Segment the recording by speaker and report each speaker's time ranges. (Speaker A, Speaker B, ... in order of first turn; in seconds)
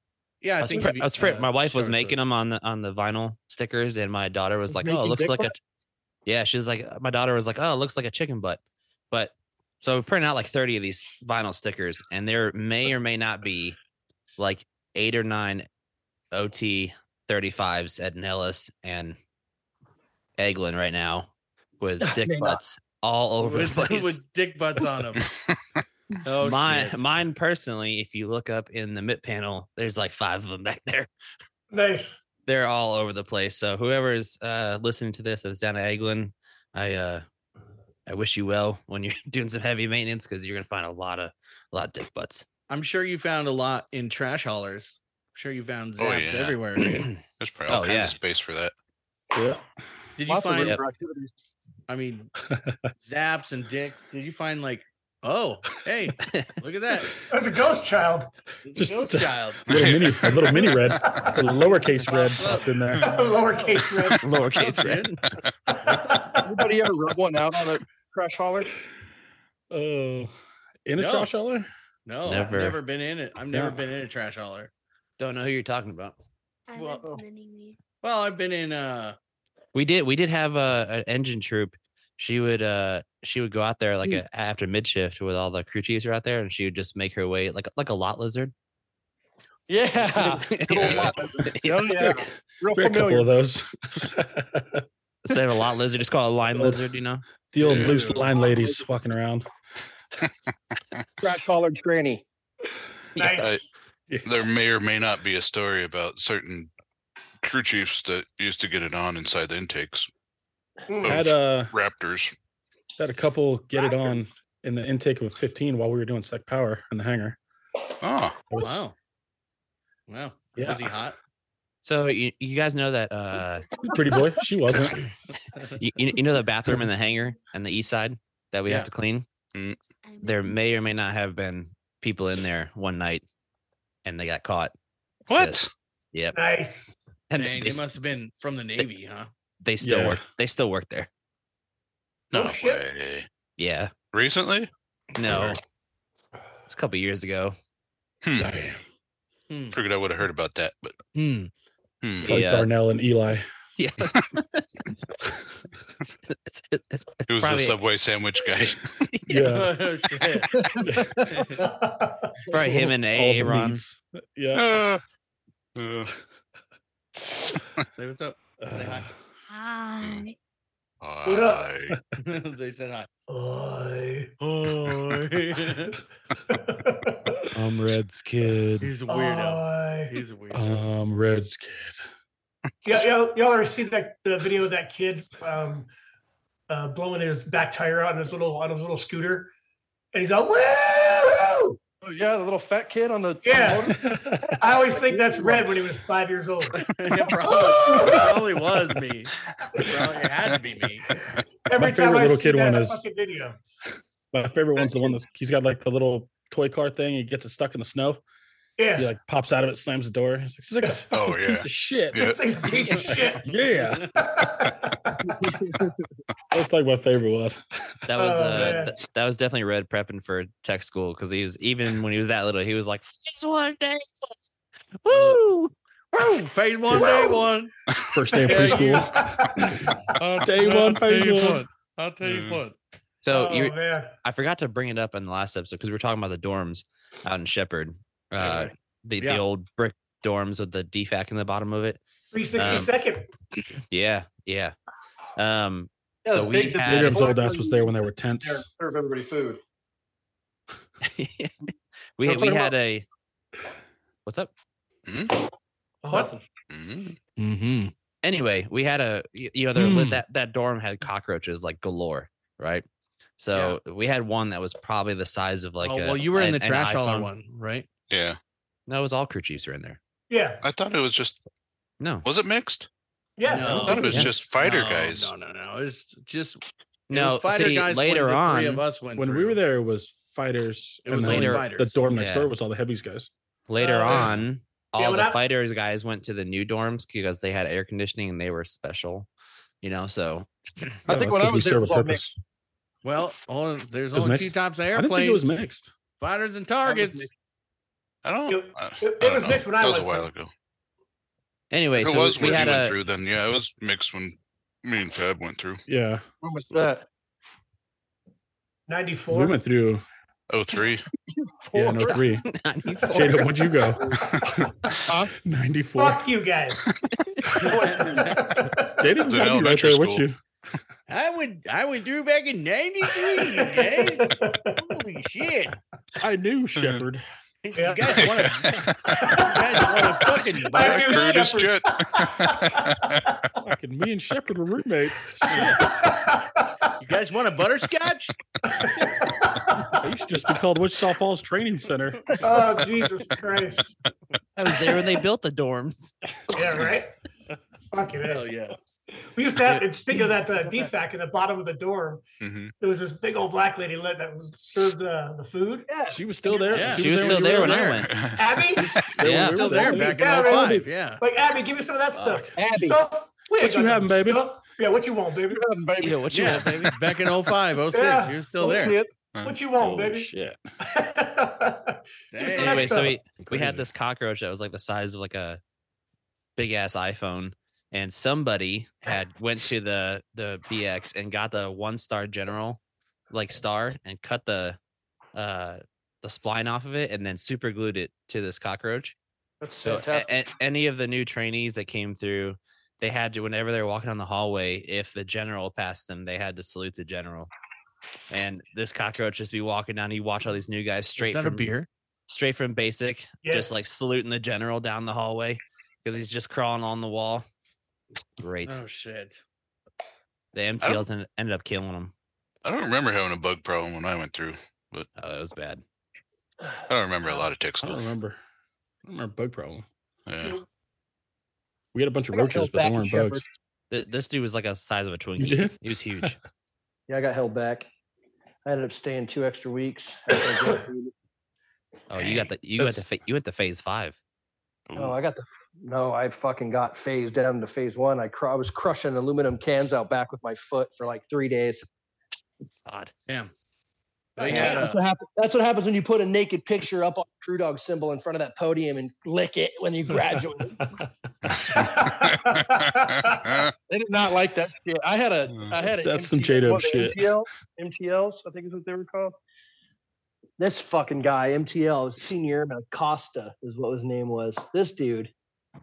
Speaker A: 0.4-2.2, 23.4-25.3, 26.2-27.0, 42.7-47.1, 50.2-50.8, 51.9-52.3, 53.0-57.1, 58.6-59.6, 61.7-63.8, 64.5-65.2, 65.8-66.4, 71.0-71.3, 72.0-74.7, 76.8-77.0, 78.0-79.2, 97.6-98.3, 118.6-118.9, 120.1-121.2, 137.3-139.3, 149.5-149.8, 151.1-151.5, 159.4-160.6, 161.3-161.7, 167.9-169.1, 172.1-173.1, 174.4-176.0, 178.8-180.8, 196.8-201.1, 225.1-225.4, 226.2-227.7, 228.3-229.1, 230.1-232.8, 238.4-239.4, 257.4-257.9, 259.7-260.2, 263.5-263.8, 265.8-267.9, 273.5-279.6, 281.1-282.0, 293.0-295.5, 296.2-297.3, 317.6-318.4, 321.1-325.8, 327.6-331.4, 335.5-335.8, 337.0-338.3, 348.3-348.8, 356.7-358.0, 358.8-361.2, 366.3-369.0, 372.3-373.1, 401.2-401.9, 408.6-409.4, 443.3-443.5, 444.4-445.0
Speaker B: 0.6-5.5, 6.2-8.6, 9.1-13.8, 14.4-15.7, 16.3-19.2, 20.4-24.2, 26.4-31.1, 32.5-37.2, 38.0-42.5, 46.8-48.1, 64.2-65.2, 72.2-72.8, 75.2-76.2, 79.7-88.5, 90.2-92.1, 95.2-97.2, 121.8-123.7, 125.8-129.2, 130.2-133.2, 134.0-134.7, 135.3-136.4, 137.3-137.8, 139.6-141.1, 143.6-143.9, 145.1-145.6, 146.7-147.6, 152.2-152.7, 153.8-154.8, 156.1-157.8, 159.1-159.6, 162.5-163.8, 177.6-178.9, 218.1-224.1, 225.0-226.4, 233.2-242.0, 242.5-242.9, 243.9-244.8, 245.3-247.3, 251.0-253.1, 254.2-254.5, 258.2-262.8, 263.4-267.3, 268.9-270.0, 272.0-272.2, 273.9-274.3, 277.1-278.8, 281.2-282.5, 283.7-289.3, 289.8-290.5, 301.7-302.9, 312.4-313.6, 344.6-346.1, 349.6-349.9, 357.0-358.1, 359.2-359.6, 366.0-366.9, 372.5-375.6, 376.6-382.8, 383.3-384.8, 385.3-389.1, 389.8-397.5, 398.3-401.7, 402.3-407.4, 408.4-408.8, 410.5-412.1, 415.1-415.8, 423.9-426.4, 432.1-434.2, 442.9-443.1
Speaker C: 4.7-5.5, 22.0-22.6, 50.2-51.3, 66.4-68.7, 89.7-93.3, 101.2-102.2, 160.5-161.3, 192.0-195.8, 215.3-215.9, 246.2-249.6, 252.2-252.7, 256.1-256.4, 291.1-292.2, 296.8-297.3, 306.4-307.1, 311.3-312.2, 315.1-315.3, 317.7-318.4, 350.5-350.9, 355.9-357.7, 359.7-360.9, 362.6-363.0, 365.5-366.7, 368.6-369.0, 389.6-390.3, 422.3-423.4, 427.1-427.9, 428.6-431.1, 434.9-441.9, 444.4-450.8, 453.9-459.3, 460.6-465.3
Speaker D: 25.2-25.8, 46.0-46.6, 47.3-48.7, 59.7-60.6, 90.7-91.3, 97.6-98.0, 103.3-103.6, 104.2-106.7, 107.4-110.1, 111.0-112.3, 118.0-118.5, 129.5-129.8, 135.3-135.7, 142.3-143.3, 144.1-144.7, 148.2-148.6, 149.7-151.0, 152.0-152.4, 157.3-159.1, 164.5-165.0, 165.8-166.1, 171.0-172.0, 211.1-212.4, 232.2-232.6, 255.1-255.4, 256.7-257.2, 268.1-268.4, 270.6-271.4, 272.2-272.9, 273.8-275.3, 298.2-300.5, 302.0-305.8, 310.5-311.0, 319.2-320.2, 328.2-329.2, 330.7-333.2, 352.4-352.7, 358.0-358.6, 369.3-369.6, 412.6-415.1, 416.9-418.2, 420.3-420.6, 434.9-435.1, 453.2-453.7
Speaker E: 31.7-32.2, 57.3-58.3, 60.6-61.3, 63.0-64.2, 65.7-66.4, 103.2-103.7, 110.9-111.2, 136.3-136.9, 142.3-142.8, 161.6-162.3, 171.2-171.7, 173.3-174.3, 176.5-177.4, 179.1-180.2, 182.8-185.9, 186.7-189.5, 190.1-191.8, 193.4-193.9, 194.6-196.9, 197.4-198.4, 201.2-203.6, 208.8-209.1, 212.1-213.5, 214.1-215.3, 218.2-218.9, 227.0-227.4, 228.3-229.8, 233.3-234.1, 242.3-243.3, 256.0-256.3, 270.3-270.6, 273.4-274.1, 283.8-284.4, 285.0-285.4, 298.5-300.3, 308.9-309.6, 315.9-316.8, 317.5-319.2, 323.2-324.8, 327.8-328.4, 329.0-332.9, 335.5-336.9, 338.6-340.0, 342.4-343.9, 346.5-347.1, 347.9-348.5, 349.3-352.2, 352.8-355.9, 358.4-359.0, 359.9-365.6, 367.9-370.3, 370.8-373.2, 403.4-403.9, 444.4-444.9, 451.7-453.6
Speaker F: 49.3-49.6, 52.5-52.8, 58.8-63.1, 69.7-70.3, 70.8-71.7, 73.5-73.8, 92.7-94.8, 97.5-99.5, 111.0-111.7, 113.0-117.4, 120.6-120.9, 123.8-125.0, 139.8-140.2, 148.4-148.8, 152.3-153.4, 159.2-159.8, 160.8-161.4, 162.6-164.6, 168.6-169.1, 180.5-181.9, 193.9-194.6, 201.8-203.0, 204.3-208.2, 208.9-212.3, 213.3-214.6, 216.5-217.6, 226.9-227.3, 228.1-229.9, 230.4-231.7, 246.8-248.7, 279.1-283.3, 291.1-292.4, 294.1-295.9, 305.9-306.2, 309.3-310.0, 311.7-312.4, 313.1-314.7, 315.4-316.2, 319.0-320.4, 326.2-327.2, 333.6-335.7, 339.9-342.5, 356.1-357.9, 358.9-360.3, 362.1-362.6, 363.6-364.4, 369.7-370.6, 373.3-373.8, 417.8-418.4, 419.1-419.9, 421.9-423.4, 425.4-426.3, 432.8-433.0, 456.0-457.3
Speaker G: 76.7-77.8, 130.0-130.6, 169.5-170.3